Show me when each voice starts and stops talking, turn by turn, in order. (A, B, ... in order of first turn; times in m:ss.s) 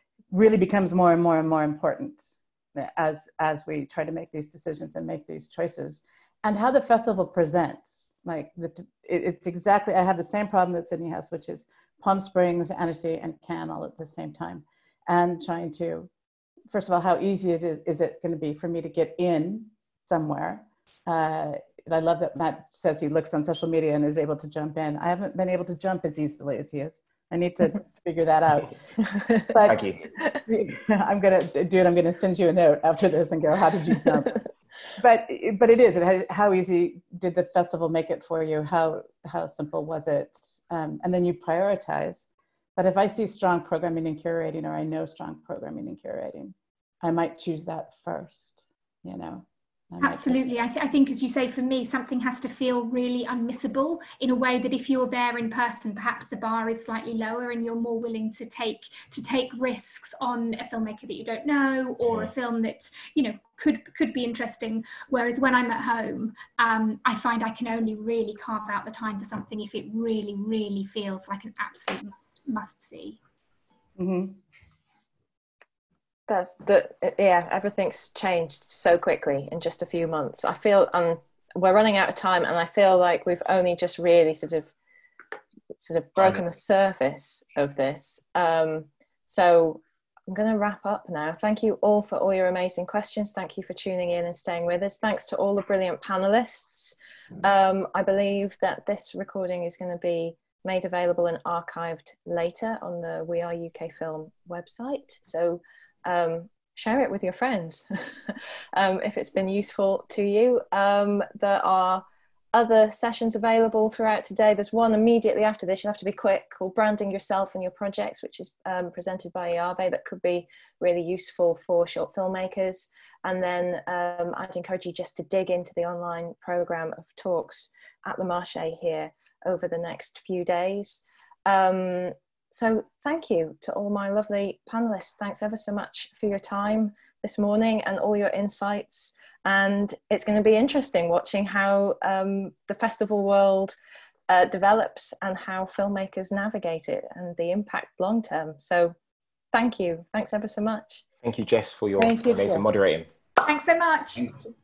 0:00.3-0:02.2 A
0:02.8-0:16.1 A
0:16.7-0:28.8 A
0:29.1-0:29.4 B
0:29.4-0:29.9 A
0:29.6-0:30.0 C
0:30.4-0:34.4 A
0:35.0-0:50.4 A
0:50.0-1:13.2 D
1:14.0-1:14.4 A
1:16.3-1:24.7 B
1:25.8-2:23.8 B
2:24.3-2:29.0 B
2:29.5-2:31.0 B
2:31.2-2:33.1 C
2:32.0-2:32.6 A
2:33.4-2:34.3 D